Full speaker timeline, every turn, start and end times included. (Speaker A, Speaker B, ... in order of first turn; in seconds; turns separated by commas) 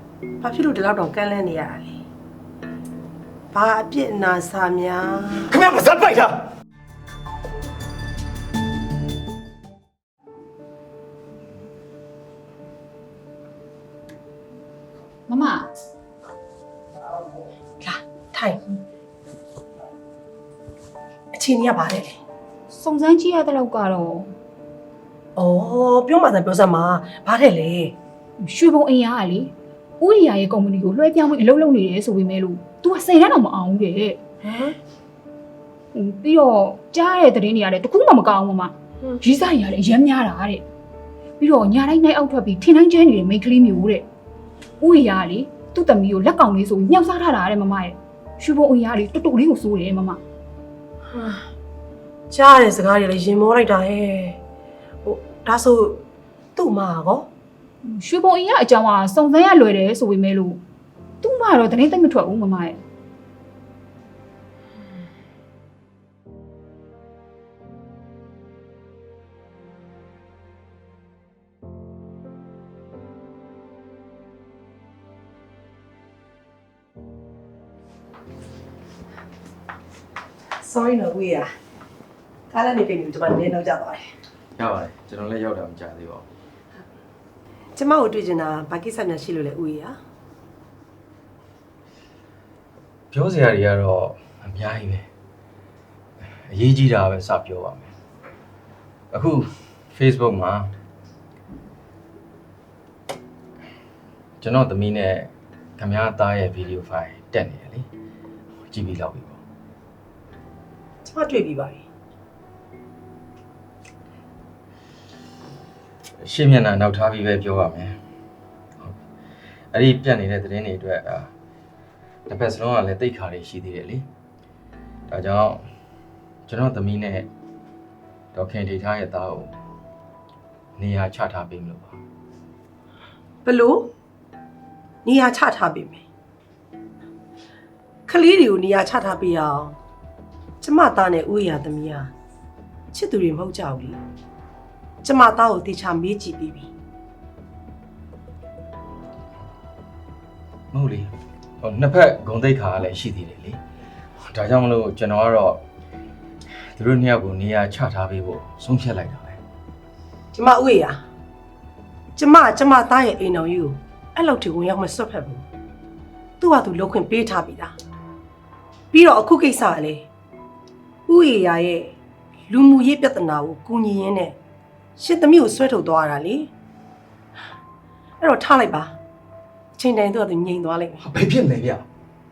Speaker A: 0.4-2.0, Speaker A: 3.5-5.5, Speaker B: 5.5-6.4, Speaker C: 15.3-15.7, Speaker A: 17.8-18.6, Speaker A: 21.3-22.2, Speaker C: 22.7-24.3, Speaker A: 25.4-27.9, Speaker C: 28.4-34.2, Speaker A: 34.4-34.8, Speaker C: 35.9-40.6, Speaker C: 41.4-44.0, Speaker C: 44.8-50.2, Speaker A: 51.1-51.5, Speaker A: 52.3-54.4, Speaker A: 55.0-56.0, Speaker A: 56.5-57.3, Speaker C: 57.8-60.6, Speaker C: 61.2-62.8, Speaker A: 80.6-81.5, Speaker A: 82.5-84.1, Speaker B: 84.6-86.2, Speaker A: 87.8-90.0, Speaker B: 93.1-95.1, Speaker B: 96.2-97.9, Speaker B: 99.1-100.7, Speaker B: 104.4-107.9, Speaker B: 108.7-109.4, Speaker A: 111.0-111.8, Speaker B: 116.2-118.0, Speaker B: 119.7-121.3, Speaker B: 122.3-124.0, Speaker B: 125.1-125.6, Speaker B: 126.5-127.3, Speaker B: 128.3-129.5, Speaker B: 130.8-132.0, Speaker A: 133.4-133.9, Speaker A: 135.0-136.0, Speaker A: 138.1-139.8, Speaker A: 140.6-142.1, Speaker A: 142.9-144.0, Speaker A: 145.0-146.7, Speaker B: 150.7-153.6, Speaker B: 154.2-155.6, Speaker B: 156.8-159.4, Speaker A: 160.3-161.0, Speaker A: 162.2-165.4, Speaker A: 166.4-167.8, Speaker A: 168.9-170.1, Speaker A: 171.1-171.9, Speaker A: 172.5-174.4, Speaker A: 175.0-176.5, Speaker A: 178.2-178.9, Speaker A: 179.8-181.0, Speaker B: 181.0-181.8